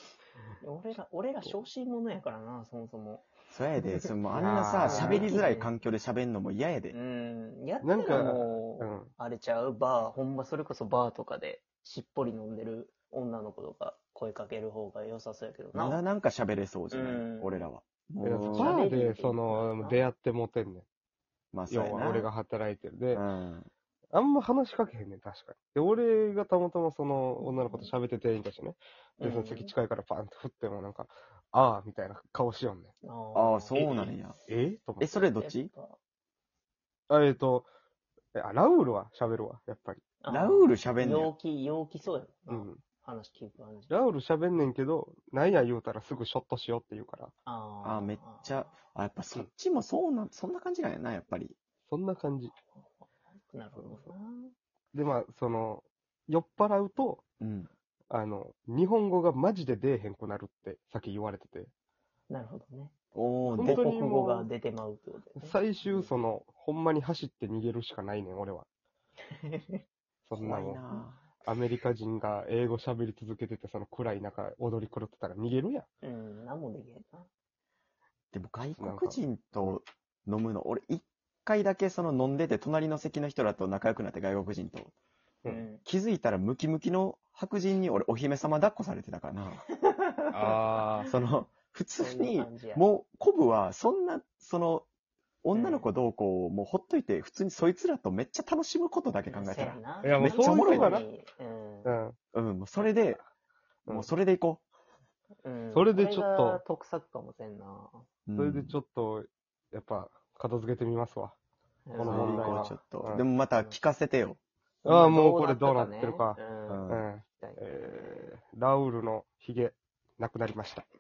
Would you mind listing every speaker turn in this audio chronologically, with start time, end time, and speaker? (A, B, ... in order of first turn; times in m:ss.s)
0:00.6-0:03.3 A
0:03.5-0:07.0 B
0:04.3-0:05.3 C
0:04.8-0:05.7 A
0:06.9-0:16.0 A
0:07.8-0:09.1 C
0:15.7-0:18.8 B
0:16.9-0:17.6 A
0:18.2-0:20.8 C
0:18.5-0:20.1 A
0:21.5-0:22.3 B
0:21.7-0:23.2 C
0:23.1-0:23.7 B
0:24.1-0:32.9 C
0:27.4-0:27.9 A
0:29.2-0:29.7 A
0:33.0-0:33.8 A
0:33.3-0:34.4 B
0:33.7-0:35.1 C
0:35.0-0:35.7 B
0:35.4-0:36.0 A
0:37.1-0:37.7 C
0:38.3-0:40.0 C
0:40.2-0:44.0 A
0:40.3-0:41.3 B
0:42.5-0:42.8 C
0:43.9-0:47.3 C
0:47.4-0:48.5 A
0:47.8-0:51.6 B
0:51.9-0:52.5 C
0:53.4-0:54.5 A
0:53.8-0:54.1 C
0:54.9-0:57.2 C
0:57.4-0:57.7 B
0:58.1-1:01.7 C
1:02.3-1:02.9 A
1:03.1-1:03.8 B
1:03.4-1:06.1 A
1:03.6-1:04.5 C
1:05.4-1:08.7 C
1:09.3-1:09.8 A
1:10.2-1:10.8 C
1:10.4-1:11.3 B
1:11.4-1:15.9 C
1:16.0-1:17.3 A
1:18.3-1:24.9 B
1:18.8-1:19.8 C
1:25.4-1:25.8 A
1:25.8-1:29.6 B
1:29.8-1:30.6 A
1:30.3-1:31.1 C
1:31.0-1:34.9 B
1:32.0-1:32.8 A
1:35.4-1:41.0 B
1:35.5-1:35.9 A
1:39.3-1:41.9 A
1:40.0-1:41.0 C
1:41.8-1:42.2 C
1:42.3-1:43.2 B
1:43.8-1:44.1 C
1:43.9-1:44.6 B
1:45.4-1:48.1 A
1:45.7-1:46.6 C
1:48.2-1:48.8 B
1:48.4-1:51.4 C
1:51.8-1:52.8 A
1:51.9-1:53.2 C
1:52.0-1:54.4 B
1:53.5-1:53.8 A
1:54.8-1:58.3 A
1:54.8-2:00.9 C
1:56.7-1:57.0 B